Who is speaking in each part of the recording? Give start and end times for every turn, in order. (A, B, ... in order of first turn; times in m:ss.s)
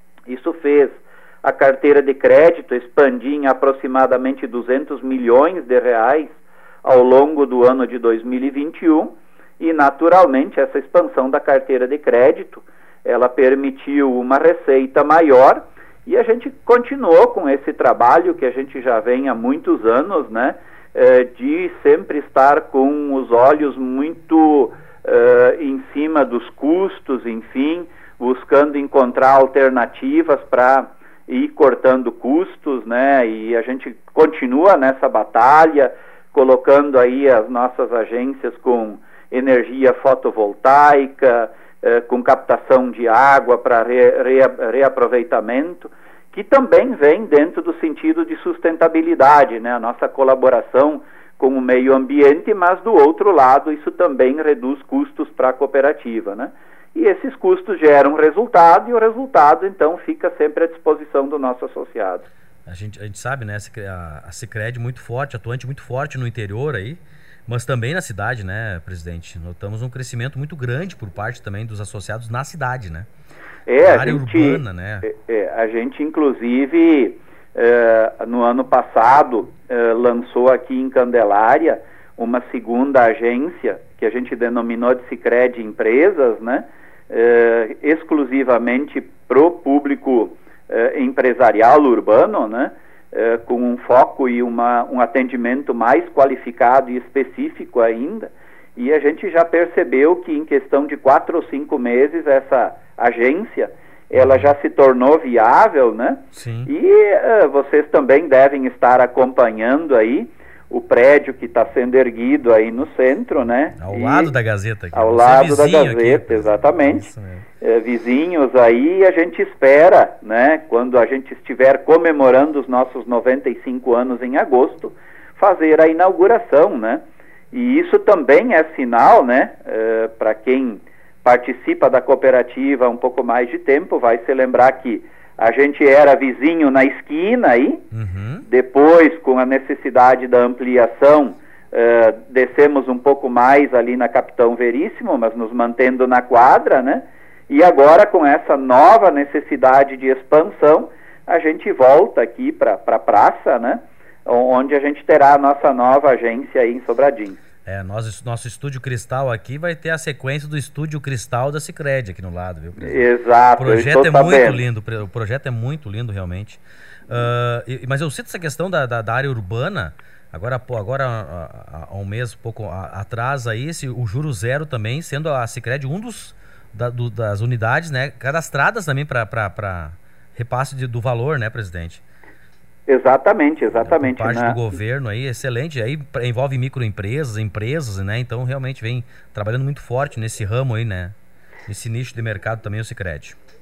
0:00.3-1:02.3 A
1:02.6-1:13.1 B
1:13.7-1:54.3 A
1:13.8-1:15.1 B
1:44.2-1:44.5 B
1:46.3-1:46.7 B
1:53.8-1:57.4 B
1:54.9-1:57.1 A
1:57.6-2:17.8 A
2:17.9-2:18.4 B
2:18.4-2:37.4 A
2:37.6-3:02.0 B
2:42.8-2:44.6 A
3:02.9-3:04.6 A
3:03.8-3:11.1 B
3:11.7-3:13.4 B